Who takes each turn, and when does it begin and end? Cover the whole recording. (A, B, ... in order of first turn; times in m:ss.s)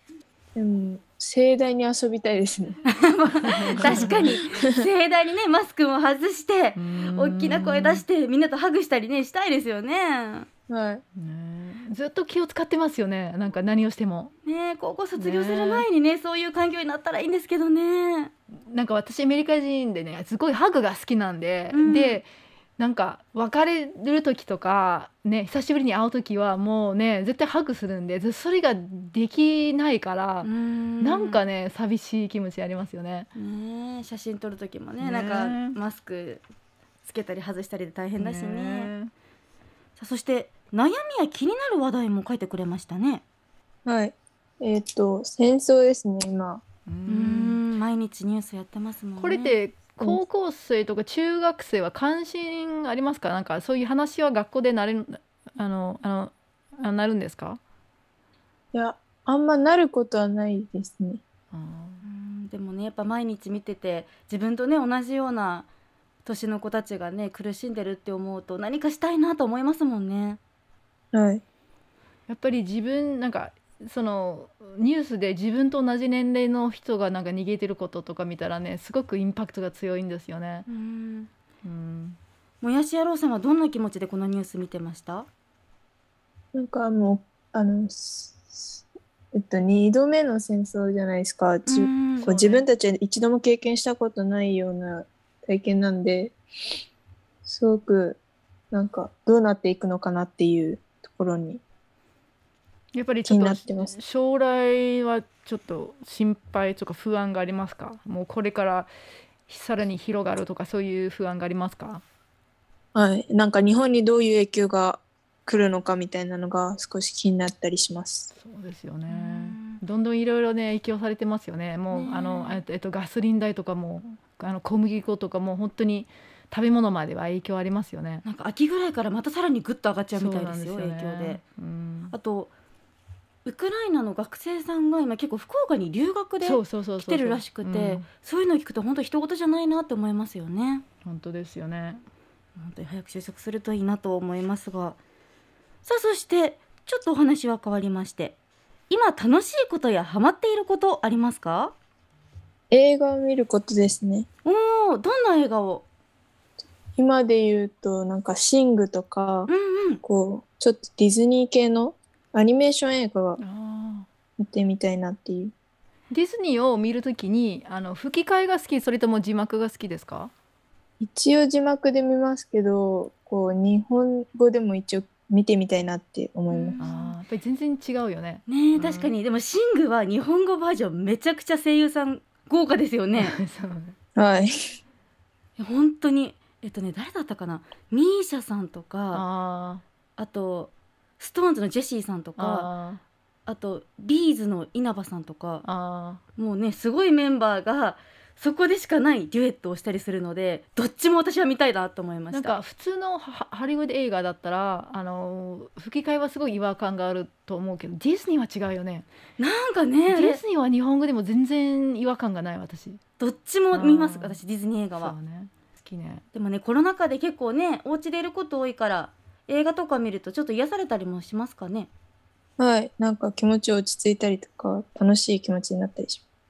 0:00.5-0:02.8 A
0:02.9-0:10.5 B
0:03.4-0:04.2 C
0:03.8-0:04.8 A
0:06.7-0:08.0 C
0:10.7-0:11.0 A
0:11.2-0:14.3 C
0:14.4-0:18.3 B
0:15.1-0:15.9 C
0:18.5-0:33.3 C
0:21.7-0:22.2 B
0:30.4-0:31.4 B
0:33.3-0:36.4 B
0:35.0-0:35.8 C
0:37.0-0:38.9 B
0:38.2-0:39.1 C
0:40.0-0:43.2 B
0:43.8-0:46.6 A
0:46.9-0:47.6 C
0:47.1-0:49.6 B
0:49.2-0:57.6 C
0:58.7-1:01.2 A
1:01.5-1:02.0 C
1:02.0-1:05.7 B
1:06.2-1:10.4 B
1:11.1-1:11.4 A
1:12.3-1:20.6 C
1:20.7-1:21.3 B
1:21.6-1:22.2 C
1:22.6-1:25.3 B
1:26.5-1:36.4 A
1:31.6-1:32.6 B
1:37.4-1:38.2 A
1:38.7-1:41.6 A
1:42.9-1:48.9 C
1:43.2-1:43.9 A
1:49.5-1:52.0 C
1:52.9-1:58.3 A
1:58.3-2:08.2 C
1:59.1-1:59.8 B
2:01.9-2:02.6 B
2:08.2-2:11.4 B
2:10.1-2:12.1 C
2:12.1-2:12.5 B
2:13.4-2:20.8 B
2:16.4-2:18.1 C
2:21.0-2:22.0 C
2:22.6-2:25.0 B
2:25.8-2:28.4 B
2:28.9-2:31.7 B
2:32.7-2:34.3 A
2:34.4-2:35.8 B
2:37.0-2:39.5 A
2:39.5-2:40.0 B
2:40.0-2:43.4 A
2:43.4-2:44.1 C
2:44.4-2:45.5 A
2:46.1-2:50.3 C
2:51.0-2:56.8 A
2:56.5-2:57.2 B
2:56.8-2:59.1 C
2:58.5-3:03.4 B
3:03.2-3:04.0 C
3:04.2-3:04.7 A
3:05.6-3:09.2 B
3:09.1-3:09.8 C
3:10.2-3:12.7 B
3:12.4-3:13.0 C
3:13.5-3:15.6 B
3:15.6-3:16.2 C
3:16.4-3:22.6 B
3:22.3-3:29.0 C
3:29.4-3:30.4 B
3:30.1-3:33.0 C
3:33.2-3:35.1 B
3:33.7-3:34.4 C
3:34.9-3:36.2 C
3:36.3-3:41.9 B
3:42.6-3:46.2 A